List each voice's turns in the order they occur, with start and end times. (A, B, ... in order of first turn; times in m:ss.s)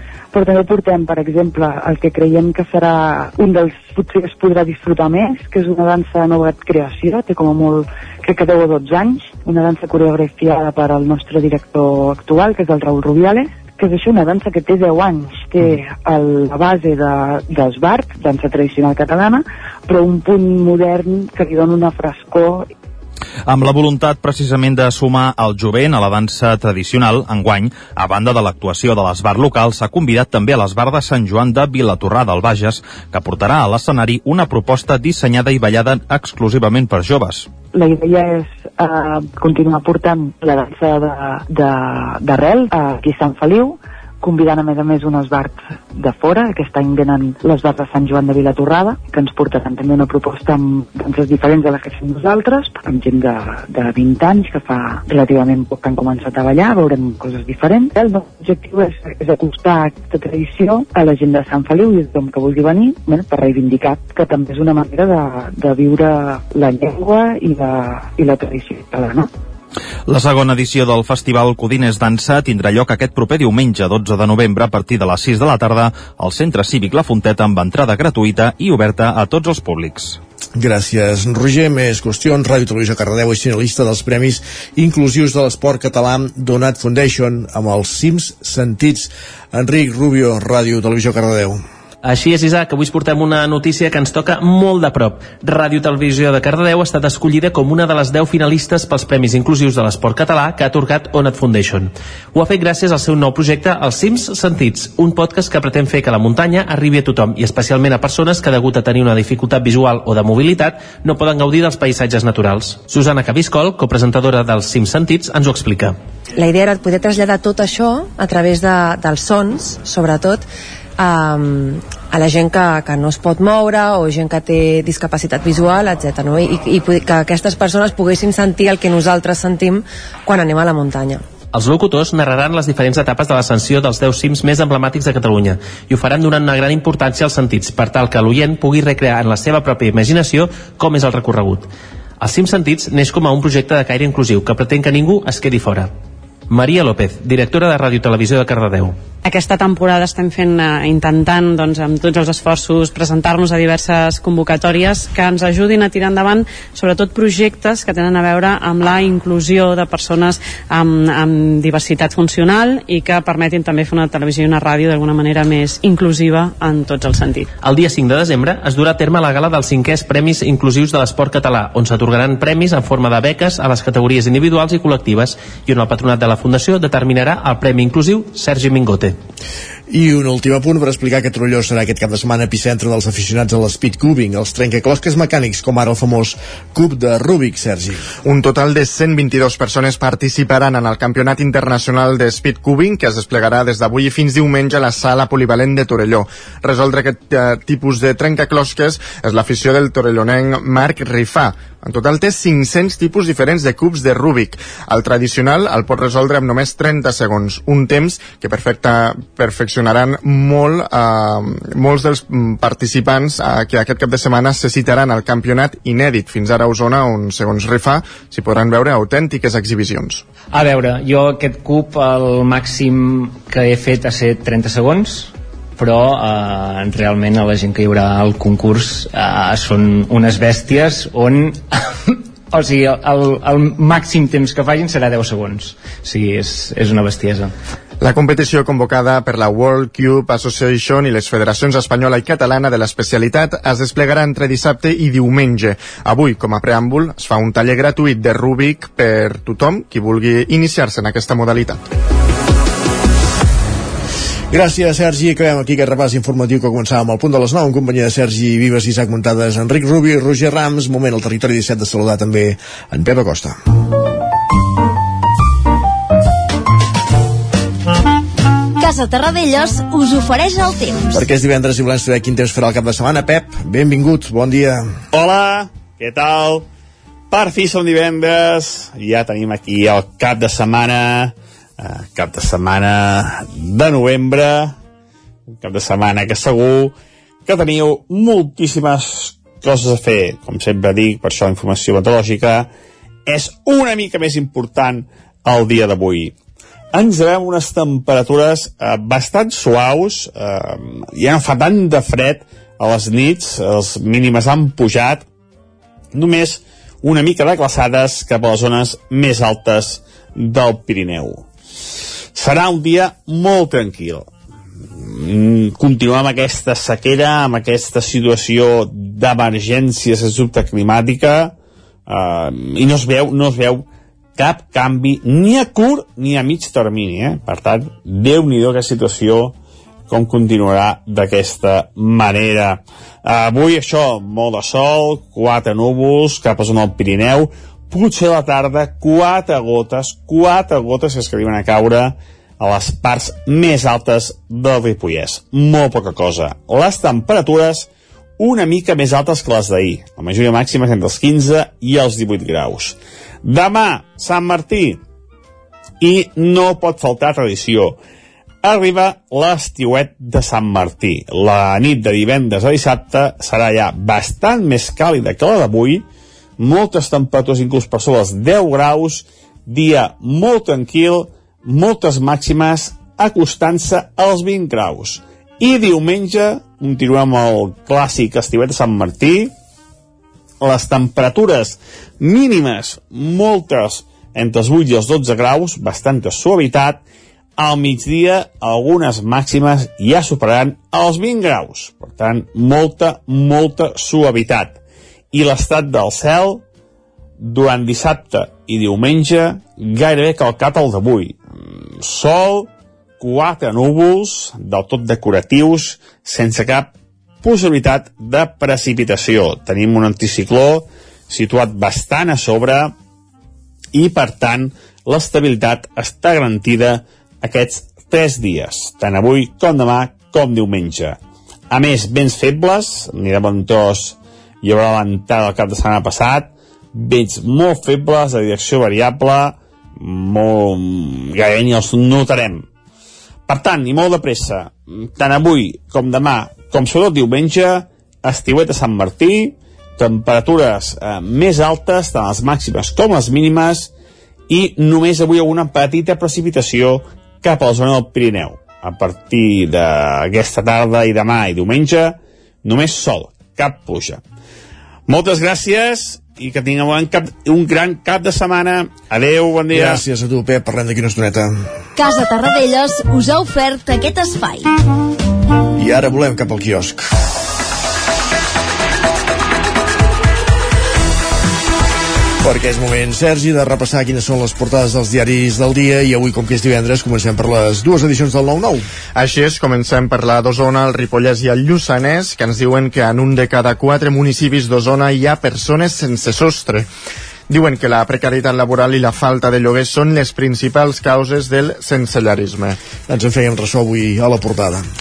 0:00.3-0:22.7 A
0:23.5-0:37.5 B
0:37.7-1:09.3 A
1:10.1-1:20.2 B
1:20.6-1:31.6 C
1:32.0-1:56.0 D
1:56.4-2:00.4 E
2:01.0-2:11.2 E
2:11.5-2:21.7 D
2:22.2-2:25.9 D
2:26.5-2:29.0 D
2:29.2-2:47.5 F
2:47.6-2:59.2 D
2:59.9-3:08.1 C
3:08.2-3:40.2 G
3:40.5-3:57.5 H
3:58.0-4:11.8 G
4:14.5-4:23.5 C
4:28.8-4:31.2 I
4:31.1-4:34.9 C
4:35.1-4:36.6 J
4:37.3-4:44.7 J
4:45.6-4:46.9 J
4:47.4-4:52.7 J
4:53.3-4:56.3 J
4:56.9-5:05.2 J
5:06.1-5:11.4 J
5:12.3-5:14.3 J
5:15.0-5:21.5 J
5:22.1-5:23.8 J
5:24.4-5:29.5 J
5:30.1-5:55.0 J
5:56.0-5:58.0 J
5:58.6-6:06.0 J
6:06.6-6:19.5 J
6:20.6-6:27.0 J
6:27.6-6:34.8 J
6:35.3-6:36.6 J
6:37.4-6:52.9 J
6:53.9-7:01.2 J
7:01.7-7:12.6 J
7:13.5-7:23.9 J
7:24.5-7:34.2 J
7:35.1-7:40.0 J
7:39.7-7:41.7 C
7:42.0-7:44.7 I
7:45.8-7:47.0 C
7:52.4-7:58.8 C
7:59.1-8:06.9 G
8:07.5-8:12.8 G
8:13.1-8:14.8 C